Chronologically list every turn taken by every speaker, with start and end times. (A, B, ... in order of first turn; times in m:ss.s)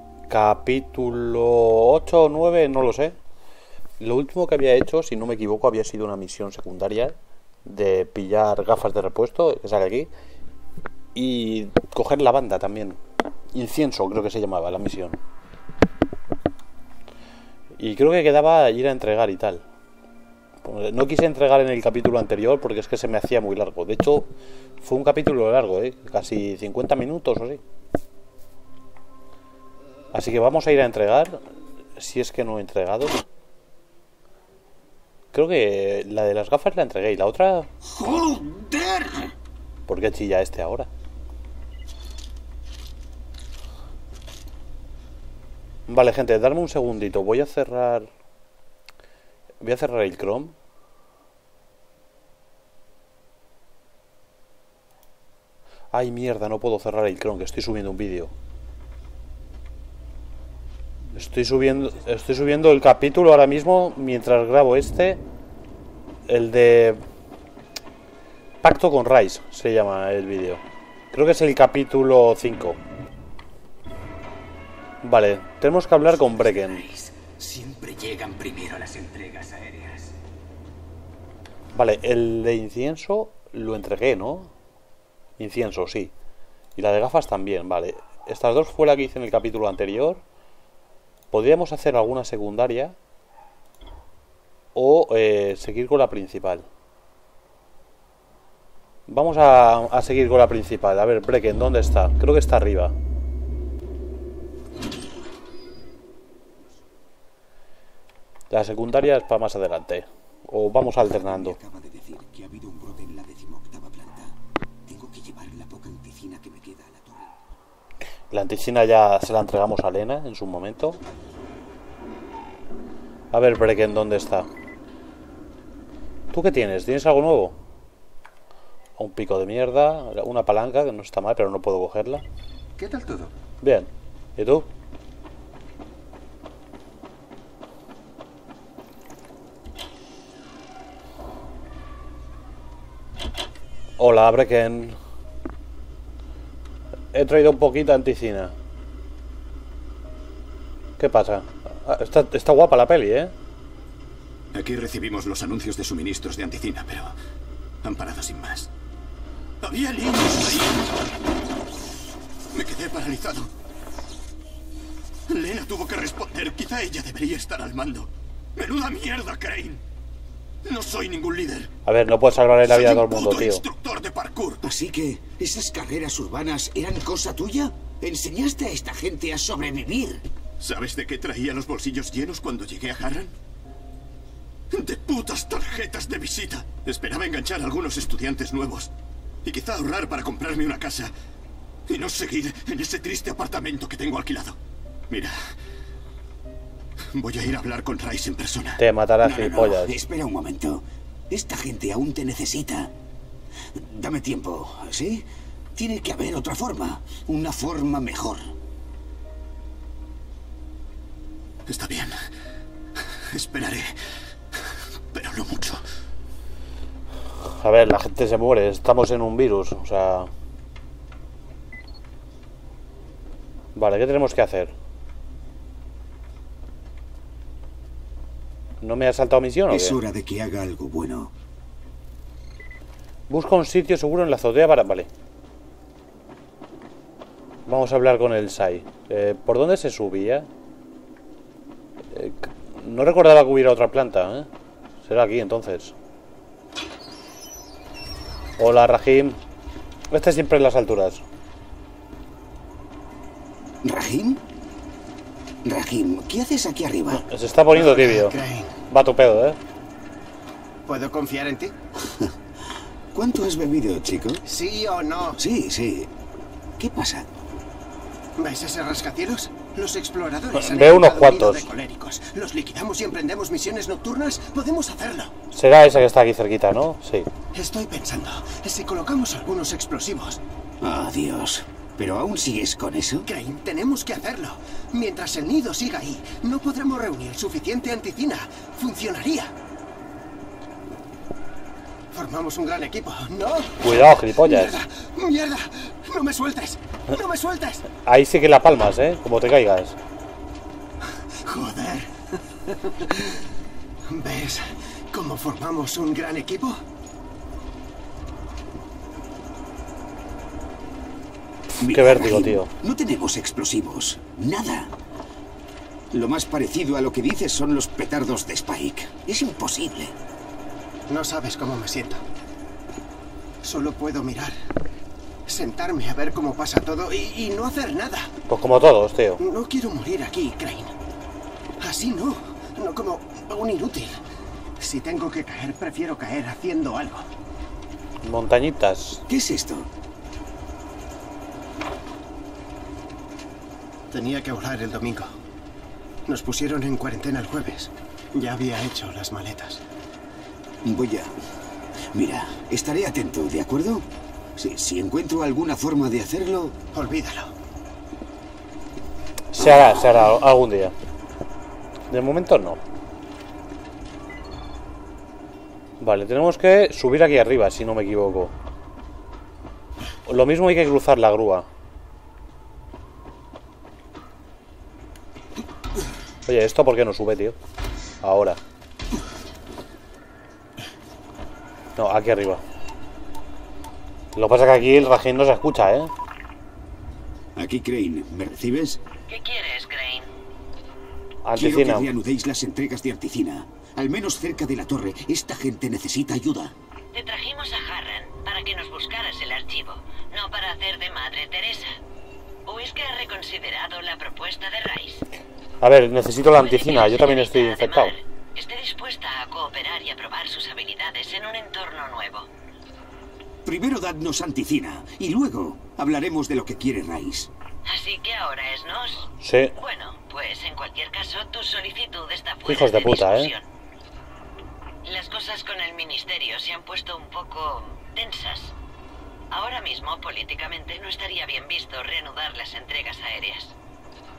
0:00.3-0:03.2 A
0:04.0-0:10.1 A
0:11.2-0:13.0 A
0:13.5-0:15.2 A
0:17.8-0:19.6 A
0:20.6-0:24.3 A
0:24.8-0:27.6 A
0:30.1-0:31.4 A
0:32.0-0:33.2 A
0:35.3-0:37.7 A
0:37.8-0:39.3 B
0:39.9-0:40.9 A
0:45.9-0:48.1 A
0:49.6-0:50.5 A
0:55.9-0:58.3 A
1:01.2-1:05.2 A
1:06.3-1:07.0 A
1:08.6-1:12.8 A
1:15.0-1:16.9 A
1:16.3-1:20.1 B
1:21.8-1:24.5 A
1:25.4-1:26.1 A
1:26.8-1:30.2 A
1:31.3-1:33.0 A
1:34.8-1:36.7 A
1:39.1-1:43.0 A
1:48.5-1:51.6 A
1:51.0-1:57.4 B
1:58.3-2:01.0 A
2:03.3-2:04.5 A
2:06.3-2:07.6 A
2:09.0-2:12.2 A
2:12.8-2:13.3 C
2:13.6-2:14.7 A
2:24.0-2:25.0 A
2:27.1-2:28.5 A
2:31.0-2:33.3 A
2:34.5-2:37.2 D
2:37.8-2:38.7 D
2:39.6-2:40.9 D
2:42.5-2:43.5 D
2:45.3-2:49.8 D
2:50.6-2:51.7 D
2:51.9-2:53.6 A
2:52.6-2:54.6 D
2:54.6-3:00.2 B
3:00.6-3:03.4 D
3:04.7-3:08.9 D
3:09.4-3:11.1 D
3:11.9-3:14.6 D
3:15.1-3:15.4 D
3:17.1-3:18.8 D
3:18.8-3:20.0 A
3:19.2-3:22.9 B
3:23.7-3:28.5 B
3:31.7-3:32.2 D
3:33.3-3:34.0 D
3:35.1-3:35.8 D
3:37.4-3:40.3 A
3:43.8-3:44.7 A
3:48.8-3:50.0 A
3:49.7-3:51.3 B
3:53.3-3:55.1 A
3:57.7-4:00.5 A
4:02.1-4:04.5 A
4:05.0-4:05.9 A
4:08.6-4:09.4 A
4:10.1-4:11.2 A
4:13.8-4:14.4 B
4:15.6-4:17.2 B
4:17.1-4:18.4 A
4:17.7-4:18.8 C
4:18.9-4:19.6 A
4:20.9-4:21.8 C
4:22.0-4:22.4 B
4:23.1-4:24.4 B
4:24.5-4:25.4 C
4:25.4-4:26.1 B
4:26.8-4:27.3 B
4:28.4-4:35.3 C
4:30.5-4:31.7 A
4:35.5-4:37.3 A
4:37.5-4:40.4 C
4:40.8-4:43.3 B
4:43.2-4:49.5 C
4:52.1-4:57.9 C
4:53.8-4:54.8 A
4:58.0-5:00.0 A
5:01.0-5:03.4 C
5:04.1-5:06.8 C
5:11.8-5:14.9 B
5:11.8-5:12.7 A
5:16.1-5:20.2 B
5:21.1-5:22.2 C
5:23.6-5:24.6 C
5:25.5-5:28.3 C
5:28.5-5:29.4 A
5:29.4-5:31.0 C
5:31.8-5:34.2 C
5:34.8-5:37.3 C
5:38.2-5:39.2 A
5:39.3-5:39.9 B
5:44.1-5:45.3 C
5:46.3-5:49.8 C
5:50.8-5:51.3 B
5:52.1-5:56.8 B
5:56.9-5:57.5 C
5:59.5-6:00.9 A
6:02.1-6:02.8 A
6:06.0-6:08.5 A
6:10.3-6:11.7 A
6:16.5-6:17.6 A
6:18.2-6:18.6 A
6:22.0-6:22.6 A
6:24.4-6:26.1 A
6:27.6-6:29.0 B
6:29.3-6:30.3 E
6:31.4-6:32.1 A
6:31.6-6:36.8 B
6:37.1-6:42.0 E
6:42.6-6:45.2 E
6:45.8-6:48.2 A
6:46.5-6:52.5 E
6:53.6-6:57.5 B
6:57.9-7:03.7 E
6:59.4-6:59.8 A
7:02.7-7:03.5 A
7:05.0-7:08.7 E
7:09.5-7:13.7 E